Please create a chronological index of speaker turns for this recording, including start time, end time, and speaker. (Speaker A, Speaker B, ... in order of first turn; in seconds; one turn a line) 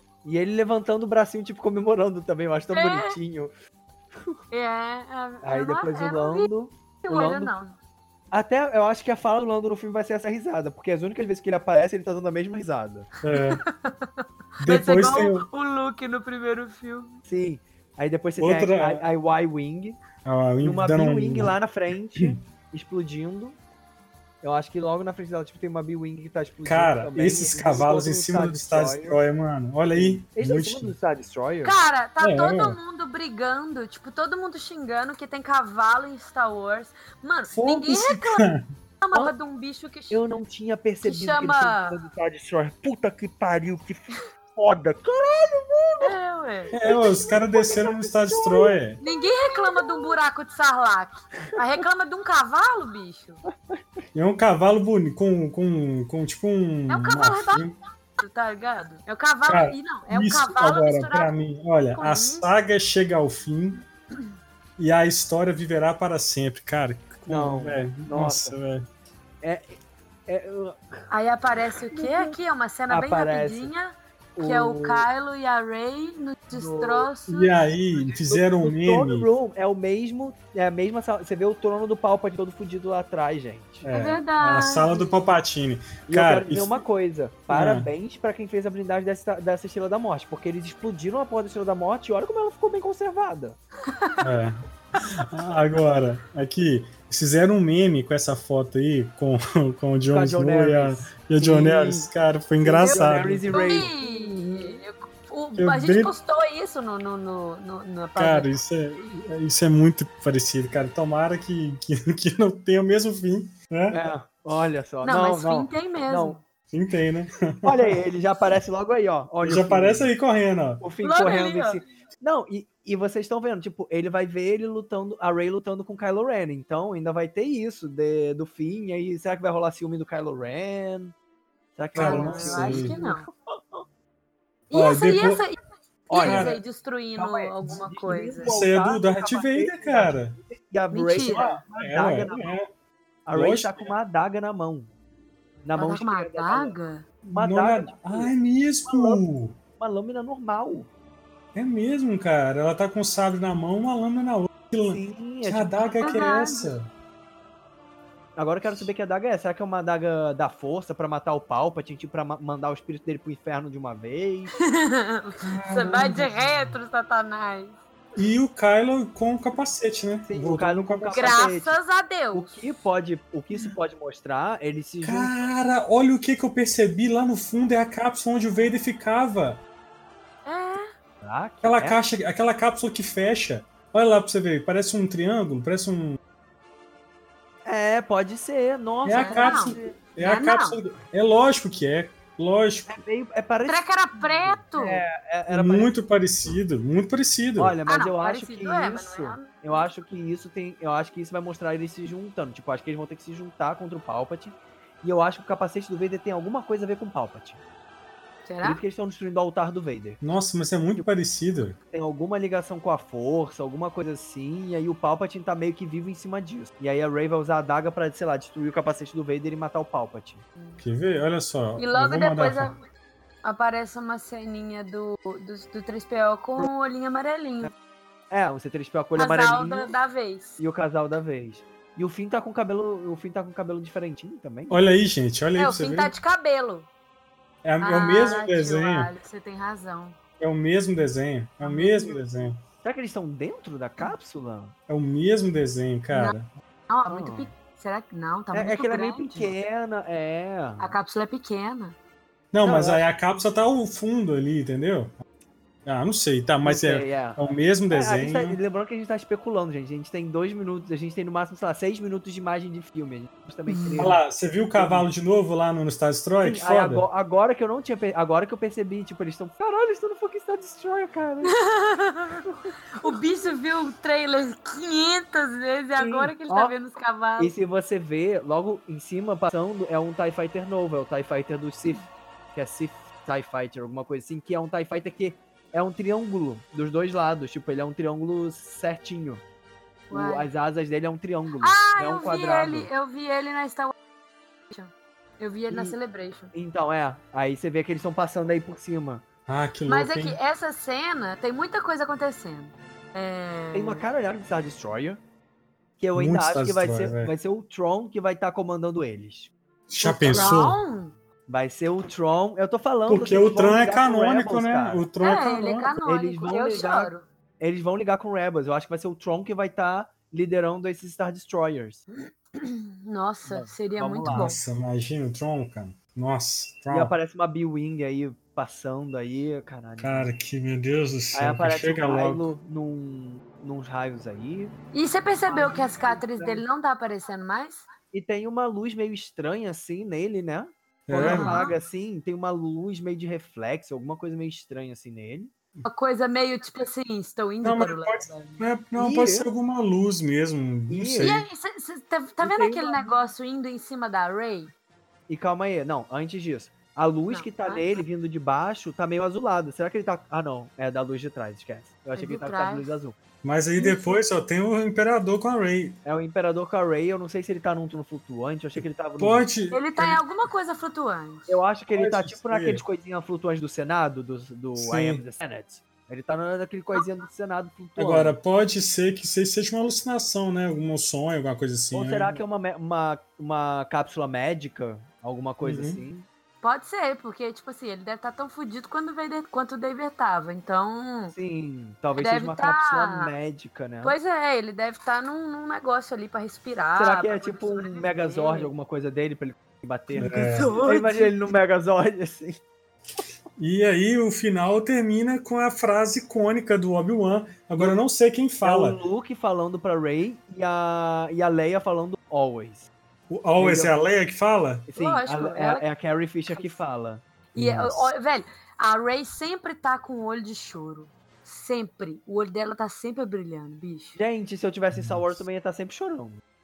Speaker A: 0.2-3.5
Speaker B: 2.7-3.2
Speaker B: 4.5-6.5
Speaker A: 5.4-7.5
Speaker B: 7.0-7.8
Speaker A: 8.3-13.1
Speaker C: 13.2-13.6
Speaker B: 13.3-17.2
Speaker C: 14.6-15.5
Speaker A: 17.3-20.0
Speaker C: 18.4-19.0
Speaker C: 20.2-21.6
Speaker A: 20.6-23.6
Speaker A: 24.4-29.2
Speaker C: 26.6-30.9
Speaker A: 29.9-31.8
Speaker B: 31.6-38.5
Speaker C: 32.2-32.8
Speaker C: 37.5-38.6
Speaker B: 39.0-40.2
Speaker A: 40.1-46.2
Speaker B: 41.0-42.0
Speaker B: 46.0-46.8
Speaker C: 46.7-49.0
Speaker A: 46.8-48.8
Speaker B: 49.0-53.4
Speaker A: 49.5-50.1
Speaker C: 54.1-57.8
Speaker B: 56.9-57.7
Speaker B: 58.2-61.3
Speaker C: 59.5-63.8
Speaker B: 61.9-62.5
Speaker C: 64.8-68.8
Speaker A: 67.3-68.6
Speaker A: 69.4-70.8
Speaker B: 71.1-77.6
Speaker A: 71.9-72.3
Speaker A: 72.9-73.7
Speaker A: 74.4-75.1
Speaker A: 76.5-77.1
Speaker C: 77.3-79.3
Speaker A: 78.0-83.9
Speaker C: 83.8-86.8
Speaker B: 83.9-85.2
Speaker A: 86.1-93.6
Speaker C: 87.5-87.9
Speaker B: 93.9-94.2
Speaker C: 94.2-103.6
Speaker A: 100.1-102.1
Speaker A: 102.6-104.8
Speaker B: 103.5-108.5
Speaker C: 105.6-106.1
Speaker C: 108.2-114.0
Speaker A: 113.9-116.4
Speaker B: 115.0-116.4
Speaker C: 116.7-118.0
Speaker A: 117.6-120.1
Speaker C: 119.4-120.8
Speaker A: 120.8-131.1
Speaker B: 121.0-121.8
Speaker A: 131.8-133.8
Speaker C: 131.9-133.0
Speaker B: 132.0-133.3
Speaker B: 134.7-135.6
Speaker C: 134.7-135.4
Speaker A: 136.1-136.6
Speaker B: 136.1-138.5
Speaker C: 136.2-136.6
Speaker A: 137.2-142.5
Speaker C: 138.4-140.4
Speaker B: 140.9-141.6
Speaker C: 141.2-142.7
Speaker A: 143.3-144.9
Speaker C: 143.3-143.9
Speaker A: 145.7-146.8
Speaker B: 145.8-147.1
Speaker C: 147.2-149.6
Speaker A: 147.3-148.3
Speaker A: 148.9-149.2
Speaker A: 149.8-150.9
Speaker C: 151.6-156.9
Speaker A: 154.8-156.3
Speaker B: 156.0-156.7
Speaker A: 158.4-164.5
Speaker B: 164.5-167.8
Speaker C: 165.4-166.4
Speaker C: 168.2-171.3
Speaker A: 170.3-171.8
Speaker B: 171.1-172.6
Speaker A: 172.3-175.3
Speaker C: 175.0-179.6
Speaker B: 180.5-180.9
Speaker A: 181.2-182.0
Speaker C: 181.6-186.2
Speaker A: 187.7-190.0
Speaker C: 189.1-193.0
Speaker B: 189.2-190.8
Speaker A: 192.9-195.9
Speaker B: 193.7-195.0
Speaker C: 195.5-197.8
Speaker A: 197.6-207.6
Speaker B: 197.9-199.8
Speaker B: 208.4-208.8
Speaker A: 208.6-210.2
Speaker C: 210.2-211.8
Speaker A: 211.8-220.4
Speaker B: 220.6-220.8
Speaker C: 220.8-222.7
Speaker B: 221.8-222.8
Speaker B: 223.4-227.7
Speaker A: 228.3-229.9
Speaker B: 229.2-230.6
Speaker A: 230.6-234.8
Speaker C: 234.7-236.1
Speaker B: 235.6-236.9
Speaker C: 237.6-239.1
Speaker B: 237.8-240.2
Speaker C: 240.4-242.6
Speaker B: 241.6-242.2
Speaker A: 242.8-244.7
Speaker C: 244.9-246.5
Speaker B: 246.9-249.5
Speaker A: 247.1-247.5
Speaker A: 248.5-250.9
Speaker B: 250.8-252.0
Speaker C: 252.5-255.2
Speaker A: 252.6-253.1
Speaker C: 255.8-258.6
Speaker A: 256.6-264.2
Speaker B: 263.7-264.1
Speaker C: 264.0-267.1
Speaker A: 264.8-265.1
Speaker A: 266.4-271.6
Speaker B: 271.5-277.5
Speaker A: 272.4-272.7
Speaker A: 276.0-276.7
Speaker A: 277.4-289.4
Speaker B: 290.1-290.5
Speaker A: 290.1-292.9
Speaker B: 291.6-293.9
Speaker B: 294.7-296.5
Speaker A: 295.7-296.0
Speaker A: 296.5-299.2
Speaker C: 299.5-300.4
Speaker B: 299.9-304.0
Speaker A: 303.7-305.2
Speaker A: 306.0-310.6
Speaker C: 306.1-307.3
Speaker C: 309.9-310.8
Speaker B: 310.2-311.1
Speaker A: 311.5-315.0
Speaker C: 313.1-315.9
Speaker B: 315.2-317.3
Speaker A: 316.0-322.1
Speaker B: 322.6-324.6
Speaker A: 323.5-324.6
Speaker C: 324.3-327.1
Speaker A: 326.9-330.3
Speaker C: 330.0-332.5
Speaker A: 331.3-334.8
Speaker B: 334.9-337.9
Speaker A: 335.4-336.6
Speaker A: 338.1-345.5
Speaker C: 341.1-341.6
Speaker B: 341.2-341.8
Speaker B: 345.9-348.6
Speaker C: 347.6-351.4
Speaker A: 349.0-349.5
Speaker A: 350.9-351.4
Speaker B: 351.2-354.7
Speaker A: 352.4-353.1
Speaker A: 355.3-363.2
Speaker B: 357.3-358.0
Speaker B: 362.2-362.9
Speaker C: 363.4-366.0
Speaker B: 363.8-364.2
Speaker A: 366.1-369.5
Speaker C: 369.2-370.2
Speaker B: 369.7-371.6
Speaker A: 371.5-378.4
Speaker C: 371.9-372.8
Speaker C: 374.8-375.2
Speaker C: 378.0-382.4
Speaker A: 381.9-386.3
Speaker C: 385.6-386.0
Speaker B: 386.6-391.4
Speaker A: 391.3-394.1
Speaker B: 392.1-393.3
Speaker B: 394.0-398.7
Speaker A: 397.0-402.6
Speaker B: 400.2-401.4
Speaker C: 400.2-400.8
Speaker C: 403.6-409.0
Speaker A: 408.6-412.9
Speaker C: 413.3-414.9
Speaker A: 413.6-413.9
Speaker A: 414.9-417.2
Speaker B: 414.9-415.8
Speaker B: 417.5-424.2
Speaker C: 417.6-418.0
Speaker A: 424.2-426.4
Speaker C: 424.9-425.4